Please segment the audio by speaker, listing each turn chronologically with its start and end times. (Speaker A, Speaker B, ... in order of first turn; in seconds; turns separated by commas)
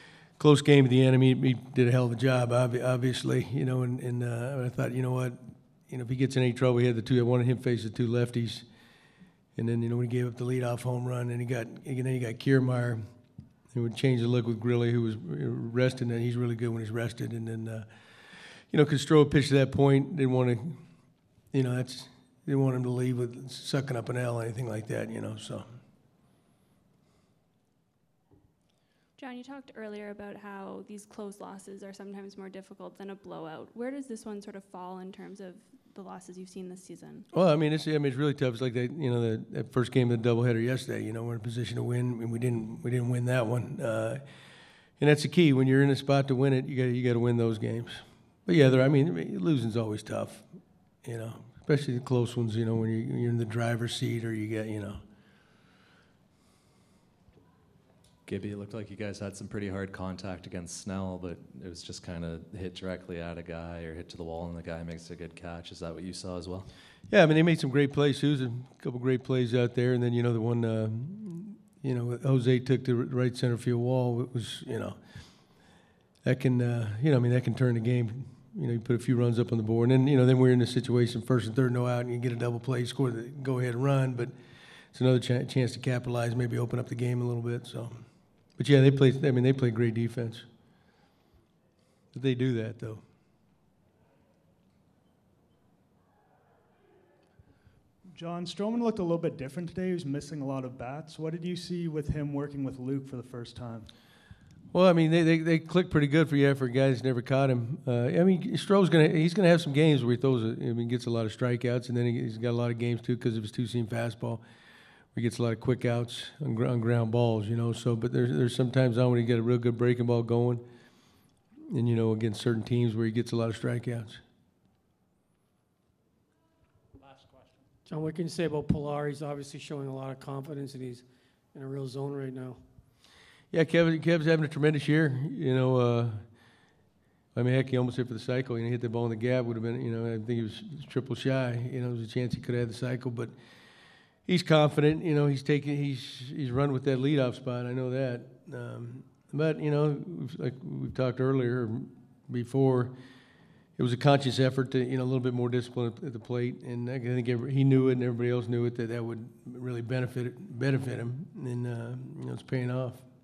Speaker A: 0.4-8.7, Speaker A: 9.6-13.0, Speaker A: 13.7-17.9, Speaker A: 18.7-20.8, Speaker A: 21.5-25.6, Speaker B: 29.2-37.3, Speaker A: 37.3-44.2, Speaker A: 45.0-50.5, Speaker A: 51.0-55.0, Speaker C: 58.3-66.7, Speaker A: 67.1-75.0, Speaker A: 76.2-84.3, Speaker A: 84.9-88.1, Speaker A: 88.6-90.5, Speaker A: 92.1-93.0, Speaker D: 98.1-103.9, Speaker A: 104.7-114.4, Speaker A: 115.1-120.6, Speaker A: 121.7-124.2, Speaker E: 127.9-132.6, Speaker A: 133.5-136.2, Speaker A: 137.3-143.3, Speaker A: 144.3-152.9, Speaker A: 153.8-163.0